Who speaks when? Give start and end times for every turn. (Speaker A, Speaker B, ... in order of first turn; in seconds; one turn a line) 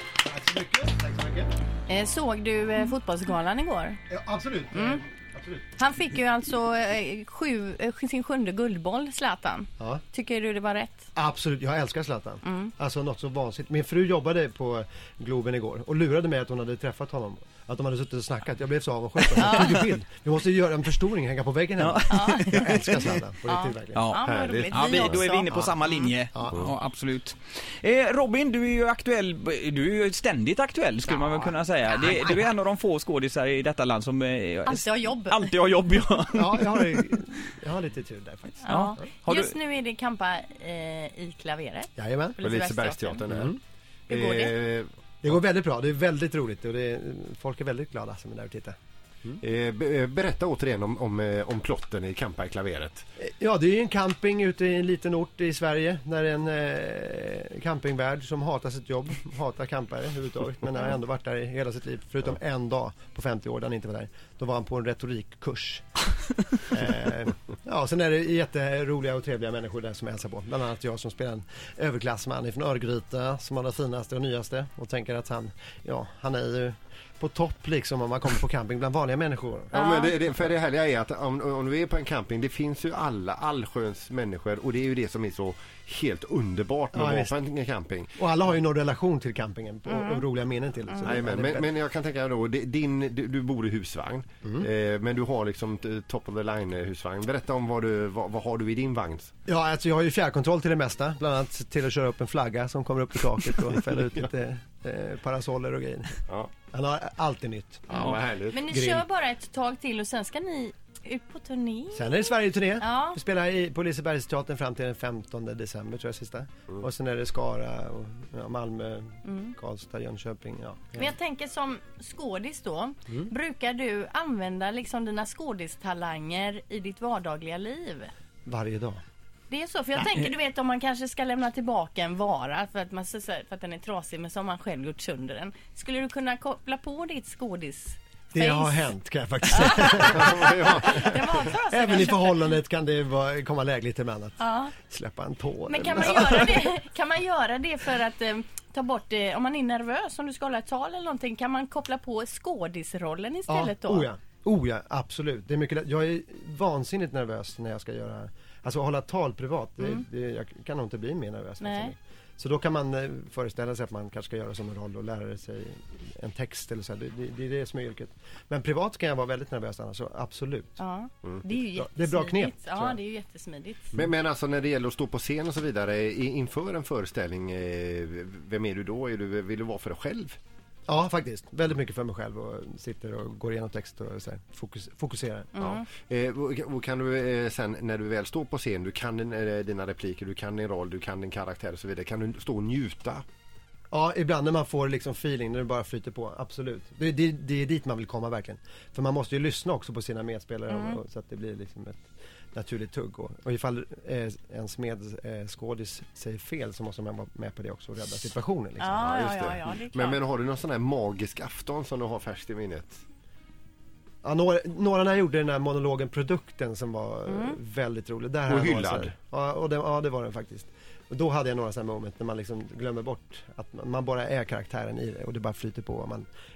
Speaker A: 0.2-1.5
Speaker B: 1.9-4.0
Speaker A: 4.1-5.7
Speaker B: 4.7-5.0
Speaker B: 5.8-11.1
Speaker A: 11.2-24.1
Speaker B: 12.5-12.7
Speaker B: 19.4-19.7
Speaker C: 21.8-23.1
Speaker B: 22.1-22.6
Speaker B: 23.5-25.7
Speaker C: 23.9-37.0
Speaker D: 24.2-25.2
Speaker A: 25.5-25.8
Speaker B: 34.7-35.5
Speaker A: 36.4-38.7
Speaker B: 38.6-43.2
Speaker C: 38.7-39.5
Speaker A: 42.0-42.4
Speaker D: 42.4-43.5
Speaker A: 43.3-43.6
Speaker B: 44.1-44.6
Speaker D: 44.1-45.3
Speaker A: 45.2-48.8
Speaker D: 49.3-53.1
Speaker A: 53.2-65.8
Speaker A: 66.7-79.8
Speaker D: 79.7-88.2
Speaker B: 79.8-80.1
Speaker A: 86.9-87.3
Speaker A: 88.2-91.7
Speaker B: 89.9-90.2
Speaker D: 91.0-99.3
Speaker A: 99.5-108.1
Speaker D: 107.9-108.6
Speaker B: 108.5-112.1
Speaker A: 108.7-109.1
Speaker A: 111.9-121.2
Speaker B: 112.8-113.2
Speaker B: 119.3-119.5
Speaker B: 121.0-128.1
Speaker A: 128.5-129.0
Speaker B: 129.5-138.9
Speaker A: 138.3-146.7
Speaker B: 139.5-142.3
Speaker D: 140.0-141.2
Speaker B: 144.4-144.7
Speaker B: 145.7-154.1
Speaker A: 153.5-170.8
Speaker B: 161.6-161.9
Speaker B: 170.8-173.9
Speaker A: 171.5-173.0
Speaker D: 173.9-180.4
Speaker A: 180.9-185.6
Speaker B: 185.6-185.8
Speaker D: 185.6-193.2
Speaker A: 193.9-209.1
Speaker B: 200.7-201.0
Speaker B: 208.8-210.2
Speaker D: 209.0-213.0
Speaker A: 214.2-226.3
Speaker B: 217.3-217.6
Speaker D: 218.5-219.1